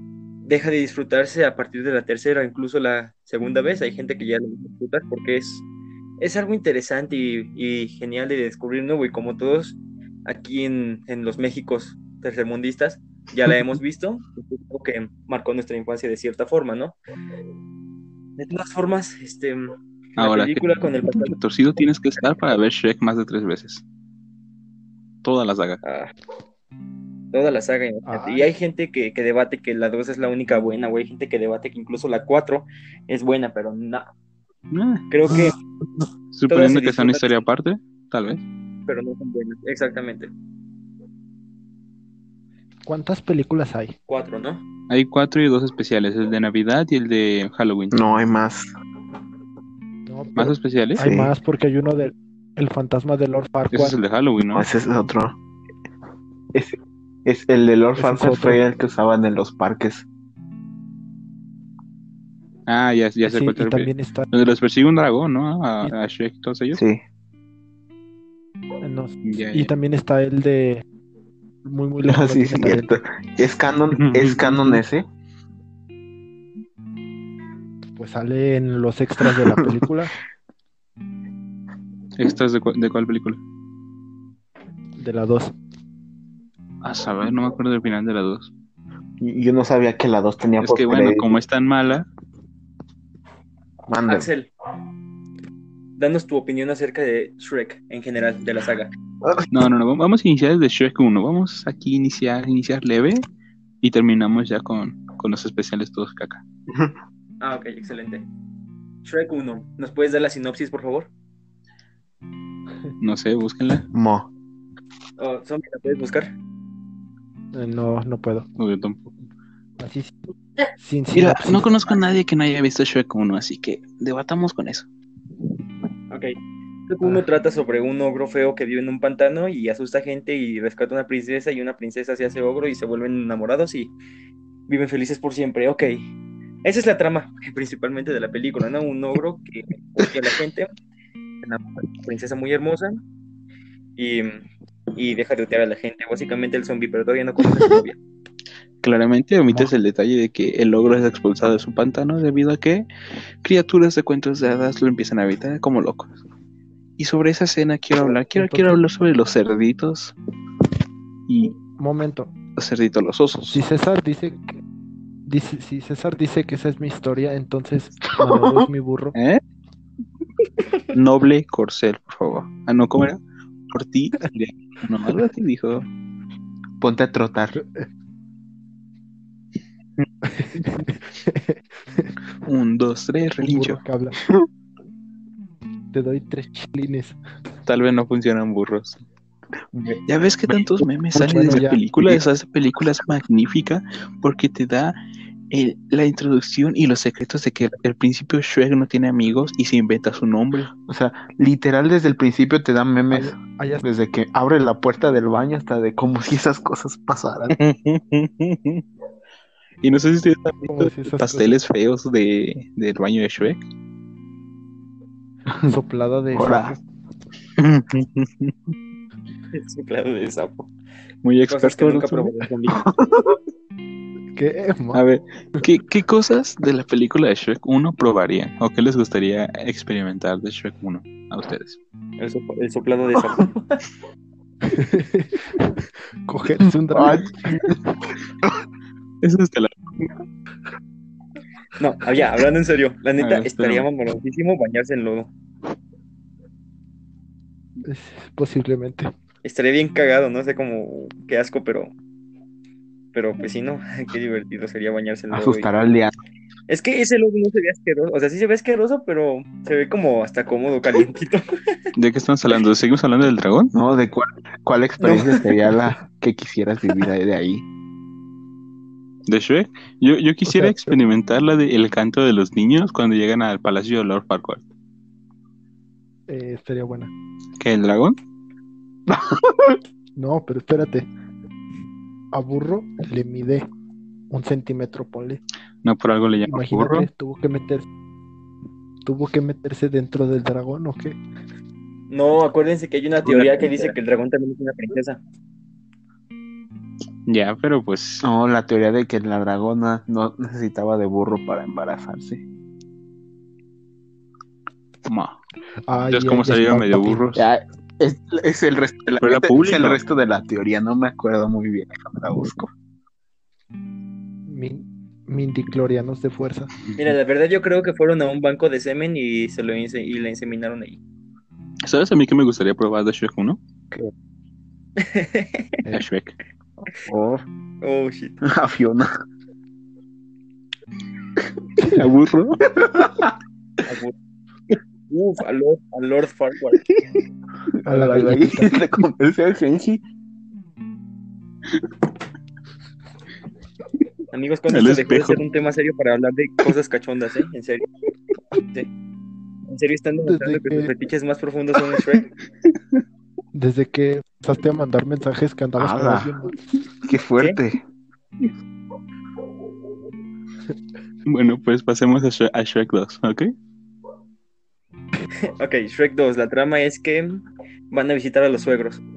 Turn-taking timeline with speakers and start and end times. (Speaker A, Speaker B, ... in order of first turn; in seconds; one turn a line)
Speaker A: 0.5-5.6
Speaker A: 6.2-17.0
Speaker A: 18.4-21.4
Speaker B: 20.2-23.8
Speaker B: 25.2-25.8
Speaker A: 25.8-26.1
Speaker A: 27.3-34.1
Speaker C: 28.1-28.5
Speaker B: 34.7-35.5
Speaker A: 35.1-35.6
Speaker B: 36.3-38.4
Speaker A: 36.5-37.4
Speaker A: 38.9-40.3
Speaker C: 42.9-44.0
Speaker A: 44.1-44.6
Speaker B: 44.9-48.0
Speaker D: 47.9-48.7
Speaker C: 50.1-54.0
Speaker B: 50.4-51.0
Speaker D: 51.0-51.3
Speaker B: 53.7-54.7
Speaker D: 54.5-55.4
Speaker D: 56.5-60.0
Speaker C: 58.0-58.6
Speaker B: 62.7-66.8
Speaker C: 63.2-64.3
Speaker D: 66.7-67.0
Speaker C: 68.8-70.8
Speaker B: 69.2-69.7
Speaker C: 71.6-73.0
Speaker D: 72.1-75.0
Speaker B: 74.0-74.8
Speaker C: 78.0-80.2
Speaker B: 82.2-83.4
Speaker C: 85.0-85.5
Speaker B: 86.8-88.5
Speaker D: 89.2-91.4
Speaker B: 90.6-92.1
Speaker D: 93.9-94.3
Speaker A: 94.1-94.5
Speaker A: 96.0-98.9
Speaker B: 99.5-103.2
Speaker B: 103.8-106.4
Speaker A: 107.4-108.3
Speaker A: 109.0-111.1
Speaker B: 113.0-113.9
Speaker D: 113.9-114.3
Speaker A: 115.2-116.3
Speaker C: 117.5-118.5
Speaker B: 118.6-119.2
Speaker C: 119.8-120.2
Speaker C: 120.8-121.7
Speaker B: 121.2-124.9
Speaker A: 126.1-126.3
Speaker A: 126.9-133.9
Speaker A: 134.7-136.1
Speaker A: 136.6-140.7
Speaker A: 141.4-143.0
Speaker A: 144.0-144.4
Speaker A: 144.9-148.0
Speaker B: 148.8-152.9
Speaker B: 153.4-156.2
Speaker B: 157.0-160.2
Speaker C: 158.3-158.8
Speaker B: 161.3-161.6
Speaker C: 161.8-162.3
Speaker B: 162.6-163.6
Speaker C: 163.5-164.6
Speaker C: 165.3-169.2
Speaker D: 168.2-168.7
Speaker B: 169.2-169.4
Speaker B: 170.9-175.9
Speaker D: 176.8-177.6
Speaker C: 177.6-177.9
Speaker C: 180.3-182.1
Speaker B: 182.4-183.8
Speaker C: 183.4-184.2
Speaker C: 185.9-187.2
Speaker B: 187.7-189.0
Speaker D: 189.7-190.6
Speaker B: 190.1-195.0
Speaker C: 191.1-191.8
Speaker B: 195.5-200.7
Speaker D: 200.9-207.6
Speaker C: 203.1-203.8
Speaker B: 207.5-208.8
Speaker B: 209.8-213.7
Speaker C: 210.7-211.6
Speaker C: 215.6-216.8
Speaker D: 216.3-216.8
Speaker B: 217.6-218.7
Speaker A: 219.5-220.7
Speaker B: 221.2-222.3
Speaker A: 221.5-222.9
Speaker D: 222.7-223.4
Speaker C: 224.3-225.0
Speaker B: 224.9-231.8
Speaker A: 232.2-233.8
Speaker C: 234.7-237.6
Speaker D: 236.9-237.8
Speaker B: 239.2-240.2
Speaker A: 241.8-245.3
Speaker B: 243.2-243.9
Speaker C: 247.8-249.1
Speaker A: 249.4-251.9
Speaker A: 253.1-255.7
Speaker D: 255.3-256.1
Speaker A: 256.7-261.8
Speaker B: 262.0-263.7
Speaker D: 263.7-267.6
Speaker A: 265.0-265.6
Speaker B: 269.3-274.7
Speaker C: 270.5-271.0
Speaker C: 276.3-277.1
Speaker B: 277.6-278.2
Speaker D: 279.1-279.8
Speaker C: 280.2-281.1
Speaker C: 282.3-283.7
Speaker C: 284.3-285.4
Speaker B: 285.8-287.1
Speaker C: 286.5-287.9
Speaker C: 289.1-291.2
Speaker A: 292.1-295.2
Speaker B: 293.3-293.6
Speaker B: 297.3-298.3
Speaker D: 298.2-302.4
Speaker B: 305.1-305.4
Speaker C: 305.9-307.4
Speaker B: 306.1-307.4
Speaker D: 307.4-312.7
Speaker B: 309.2-310.0
Speaker C: 314.5-316.7
Speaker A: 317.0-321.0
Speaker B: 321.9-323.6
Speaker A: 325.0-325.8
Speaker B: 325.9-326.4
Speaker D: 327.1-327.4
Speaker A: 327.8-328.4
Speaker D: 328.4-329.1
Speaker B: 331.8-332.7
Speaker D: 332.7-333.3
Speaker A: 333.9-334.1
Speaker A: 335.1-336.9
Speaker D: 337.7-340.0
Speaker C: 337.9-338.8
Speaker A: 344.3-347.9
Speaker B: 344.7-345.4
Speaker A: 348.6-348.9
Speaker A: 349.7-352.3
Speaker C: 350.3-350.9
Speaker C: 353.6-356.6
Speaker D: 355.8-356.3
Speaker D: 357.0-357.8
Speaker B: 361.3-363.5
Speaker A: 365.6-369.0